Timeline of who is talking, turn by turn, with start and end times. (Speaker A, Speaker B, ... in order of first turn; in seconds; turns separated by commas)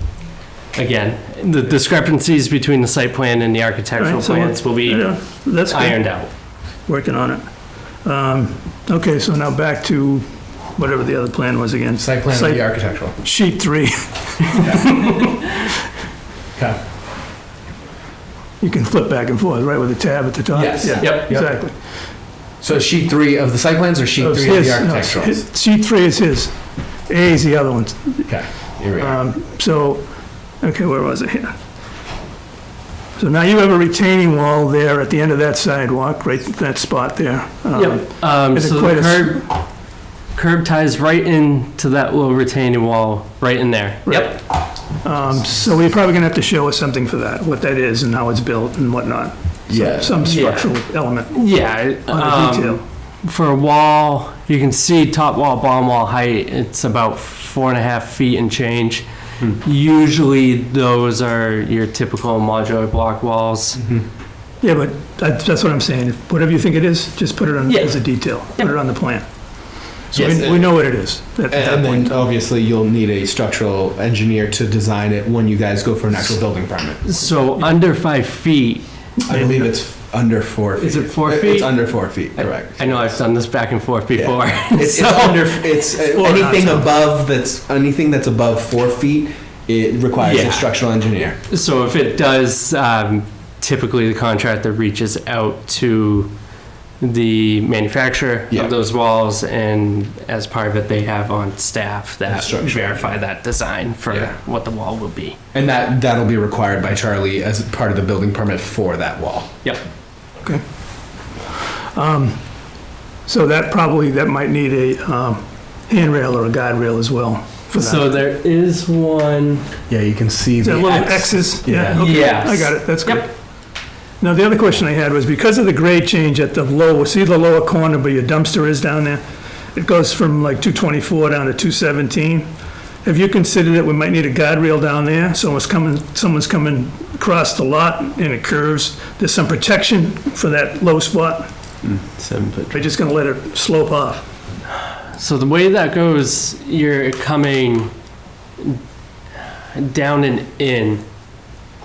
Speaker A: 0.8-6.3, Speaker B: 4.0-15.2, Speaker C: 12.0-13.2, Speaker B: 18.6-21.8, Speaker C: 20.5-21.5, Speaker A: 21.0-21.3, Speaker C: 22.6-25.5, Speaker B: 24.2-28.4, Speaker C: 28.3-29.2, Speaker B: 29.0-30.1, Speaker B: 30.6-31.6, Speaker B: 33.2-39.4, Speaker A: 37.7-39.6, Speaker A: 40.3-44.4, Speaker B: 44.1-52.8, Speaker C: 49.7-50.2, Speaker A: 50.2-50.7, Speaker A: 51.3-63.8, Speaker C: 63.8-64.0, Speaker B: 64.6-69.3, Speaker A: 67.7-68.7, Speaker B: 70.0-72.2, Speaker C: 70.1-70.8, Speaker C: 71.5-77.0, Speaker A: 77.0-78.9, Speaker C: 79.3-83.2, Speaker B: 79.3-79.7, Speaker A: 80.8-86.8, Speaker C: 84.2-91.4, Speaker A: 90.2-90.7, Speaker A: 91.5-96.3, Speaker A: 97.0-105.4, Speaker C: 102.3-103.1, Speaker C: 104.1-104.3, Speaker C: 105.5-109.5, Speaker B: 111.3-112.6, Speaker B: 113.3-118.2, Speaker A: 117.7-119.7, Speaker C: 119.9-122.1, Speaker B: 120.6-123.4, Speaker A: 121.9-123.2, Speaker B: 124.2-129.2, Speaker B: 129.7-132.5, Speaker B: 133.0-141.5, Speaker A: 142.2-142.6, Speaker B: 142.7-144.3, Speaker A: 145.2-147.9, Speaker A: 149.7-151.0